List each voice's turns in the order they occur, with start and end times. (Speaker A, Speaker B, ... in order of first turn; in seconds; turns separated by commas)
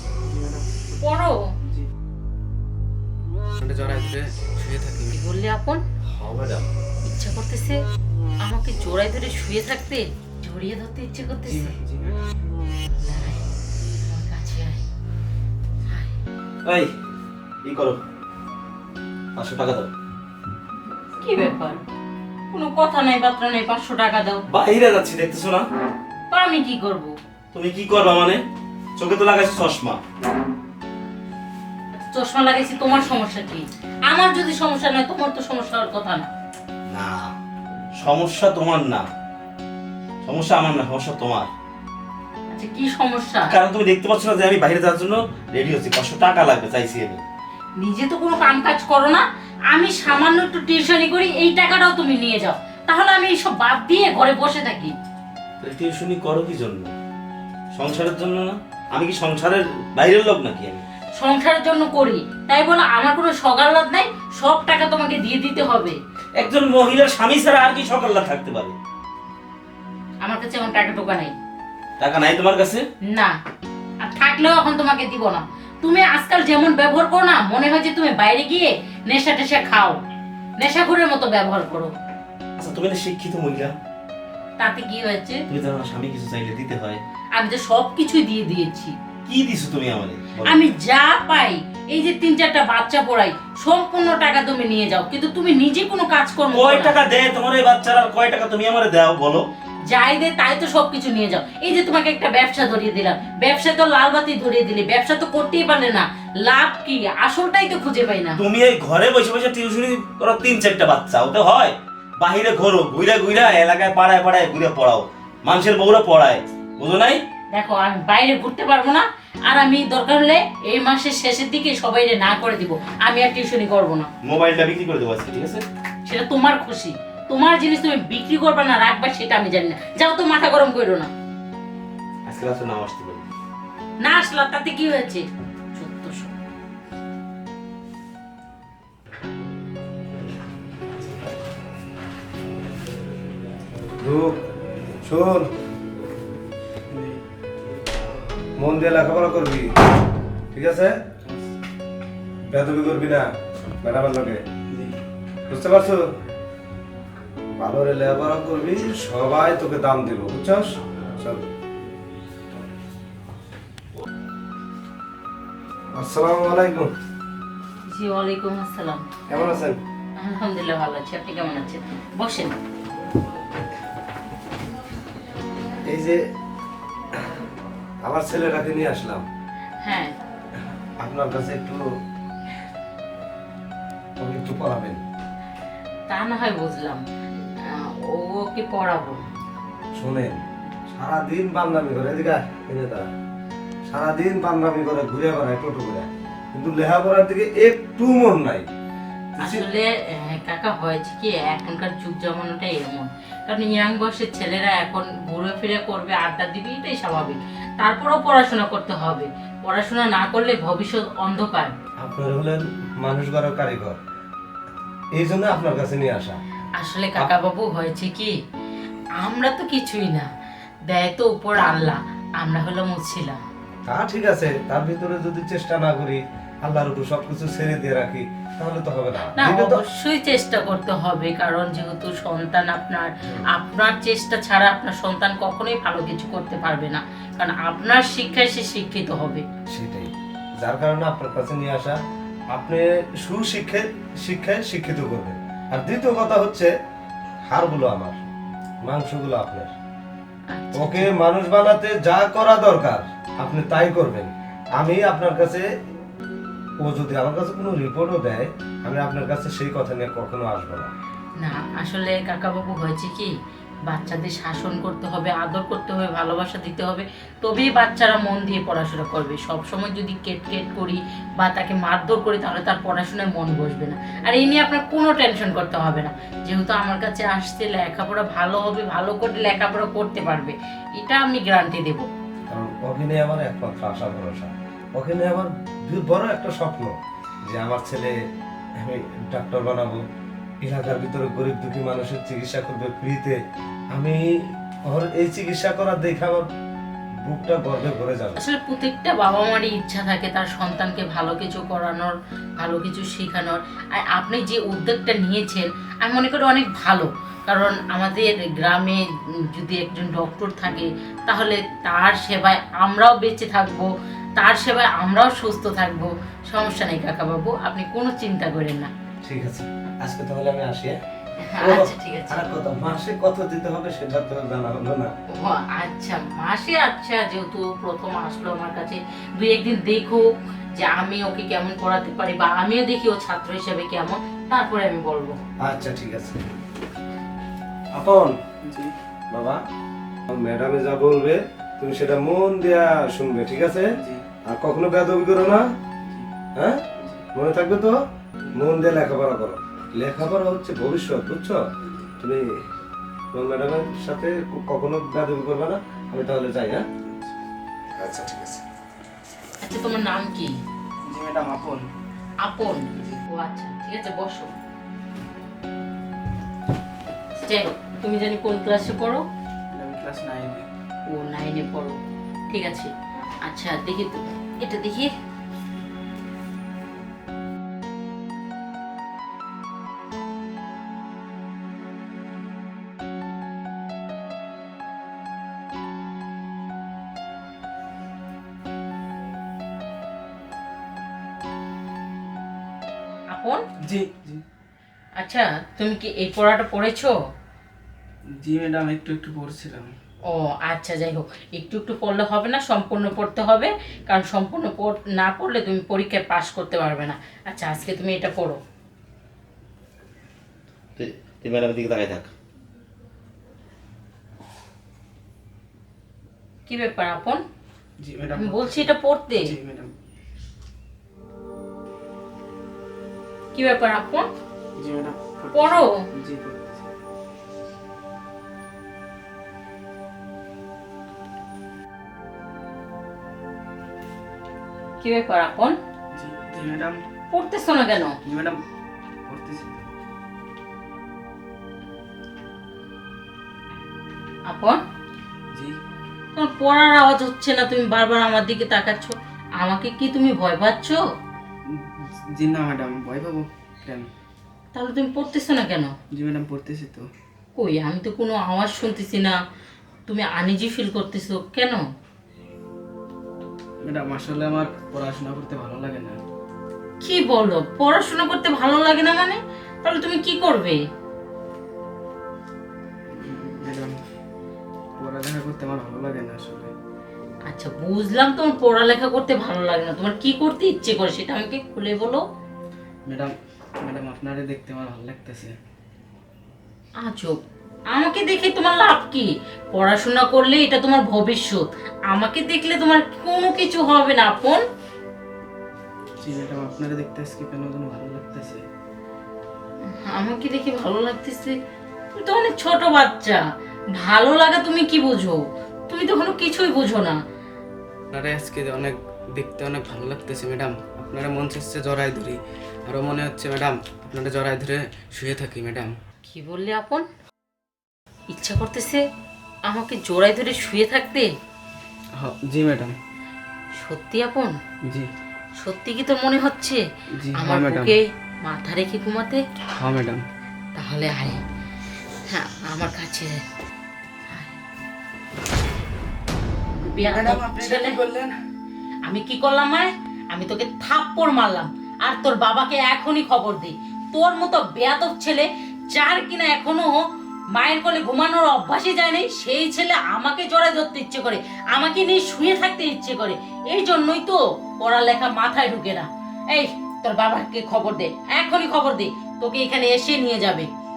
Speaker A: 0.2-1.9, Speaker B: 1.0-1.4, Speaker A: 3.6-5.2, Speaker B: 5.1-5.8, Speaker C: 6.1-6.7, Speaker B: 7.0-7.8, Speaker B: 8.4-11.8, Speaker A: 11.4-12.2, Speaker B: 13.0-13.4, Speaker B: 14.0-14.8, Speaker B: 15.9-16.1, Speaker C: 16.6-16.9, Speaker C: 17.6-18.0, Speaker C: 19.4-19.9, Speaker B: 21.2-21.8, Speaker B: 22.5-24.4, Speaker C: 24.5-25.7, Speaker B: 26.3-27.1, Speaker C: 27.5-28.4, Speaker C: 29.0-30.0, Speaker B: 31.9-36.3, Speaker C: 36.9-37.3, Speaker C: 38.0-39.1, Speaker C: 40.2-41.5, Speaker B: 42.5-43.6, Speaker C: 43.5-47.2, Speaker B: 47.8-55.0, Speaker C: 55.6-56.9, Speaker C: 57.7-60.8, Speaker B: 61.2-66.0, Speaker C: 66.4-68.8, Speaker B: 70.2-71.3, Speaker C: 72.0-72.8, Speaker B: 73.0-73.4, Speaker B: 74.0-80.0, Speaker B: 80.6-81.9, Speaker C: 82.6-83.8, Speaker B: 84.6-85.4, Speaker C: 85.5-87.0, Speaker B: 87.4-89.0, Speaker C: 89.3-90.6, Speaker B: 90.5-97.0, Speaker C: 96.5-99.5, Speaker B: 99.9-108.4, Speaker C: 108.4-117.2, Speaker B: 117.5-124.1, Speaker C: 124.2-125.7, Speaker B: 126.1-131.1, Speaker C: 132.3-133.2, Speaker B: 134.0-135.2, Speaker B: 135.8-136.3, Speaker D: 144.0-144.4, Speaker D: 145.0-145.5, Speaker A: 146.9-147.2, Speaker D: 148.6-149.7, Speaker D: 150.5-150.9, Speaker A: 151.2-151.5, Speaker D: 152.5-153.3, Speaker D: 153.8-154.4, Speaker A: 154.7-155.0, Speaker D: 155.5-156.1, Speaker D: 157.6-161.4, Speaker D: 166.0-166.9, Speaker B: 167.9-169.0, Speaker D: 169.3-169.8, Speaker B: 170.2-172.5, Speaker D: 175.9-176.2, Speaker D: 178.0-179.2, Speaker B: 179.8-180.1, Speaker D: 181.0-181.8, Speaker D: 184.2-185.0, Speaker B: 186.1-187.0, Speaker B: 187.6-189.2, Speaker D: 190.0-190.4, Speaker D: 190.9-193.1, Speaker D: 193.9-198.7, Speaker D: 199.4-199.7, Speaker B: 199.4-211.7, Speaker D: 212.0-214.0, Speaker D: 215.2-216.4, Speaker B: 216.8-218.3, Speaker B: 219.2-220.3, Speaker B: 220.9-223.4, Speaker D: 223.9-229.8, Speaker B: 229.3-239.4, Speaker D: 239.7-240.1, Speaker D: 240.6-242.0, Speaker D: 242.5-246.7, Speaker D: 247.5-248.3, Speaker D: 248.8-249.7, Speaker B: 250.5-251.1, Speaker D: 250.8-255.7, Speaker D: 256.8-260.9, Speaker B: 261.4-263.3, Speaker B: 263.9-282.1, Speaker D: 282.5-287.0, Speaker D: 287.5-288.1, Speaker D: 288.8-290.1, Speaker D: 290.6-293.4, Speaker D: 293.9-296.5, Speaker D: 297.2-298.4, Speaker B: 298.4-309.0, Speaker B: 309.5-318.9, Speaker D: 319.2-321.0, Speaker B: 321.4-322.5, Speaker D: 321.6-325.1, Speaker B: 325.4-335.4, Speaker D: 335.6-336.4, Speaker D: 337.9-338.4, Speaker A: 338.7-338.9, Speaker D: 339.3-339.6, Speaker D: 340.3-343.9, Speaker A: 344.0-344.2, Speaker D: 344.5-345.7, Speaker D: 346.6-346.8, Speaker A: 347.0-347.3, Speaker D: 347.3-348.0, Speaker A: 348.4-348.7, Speaker D: 348.5-351.6, Speaker D: 352.2-352.5, Speaker D: 353.3-356.9, Speaker A: 357.1-357.3, Speaker D: 358.0-358.6, Speaker B: 359.6-360.5, Speaker A: 361.1-361.9, Speaker B: 362.4-364.5, Speaker B: 367.4-369.2, Speaker A: 369.7-370.7, Speaker B: 371.1-372.0, Speaker B: 372.5-372.9, Speaker B: 373.4-375.1, Speaker B: 393.3-393.6, Speaker A: 393.9-394.4, Speaker B: 395.2-397.1, Speaker A: 398.4-399.9, Speaker B: 400.3-408.6, Speaker C: 411.0-412.3, Speaker B: 416.7-417.4, Speaker A: 418.0-419.9, Speaker B: 418.4-419.6, Speaker B: 423.5-424.3, Speaker A: 424.8-426.9, Speaker B: 425.5-426.0, Speaker B: 435.0-435.8, Speaker A: 436.1-437.0, Speaker B: 437.3-438.2, Speaker A: 438.2-438.6, Speaker A: 439.3-439.9, Speaker B: 444.5-444.8, Speaker B: 446.4-451.0, Speaker A: 452.0-454.1, Speaker B: 454.7-455.9, Speaker A: 456.1-457.1, Speaker B: 457.6-459.4, Speaker B: 460.1-461.8, Speaker A: 463.8-466.2, Speaker B: 467.0-470.8, Speaker A: 473.1-474.0, Speaker A: 475.0-476.7, Speaker B: 477.5-482.2, Speaker A: 483.1-485.5, Speaker B: 487.0-487.4, Speaker B: 487.9-494.6, Speaker A: 496.2-498.6, Speaker B: 500.1-501.6, Speaker B: 502.1-503.4, Speaker B: 503.9-507.2, Speaker A: 508.1-516.0, Speaker B: 516.3-517.1, Speaker B: 518.3-519.0, Speaker B: 519.7-521.3, Speaker A: 522.2-523.0, Speaker B: 523.8-524.5, Speaker B: 525.6-526.8, Speaker A: 527.2-528.0, Speaker B: 527.4-529.4, Speaker A: 529.7-530.2, Speaker B: 530.8-531.4, Speaker B: 532.3-533.4, Speaker B: 534.3-534.6, Speaker B: 536.9-538.0, Speaker A: 537.0-538.4, Speaker B: 539.1-560.7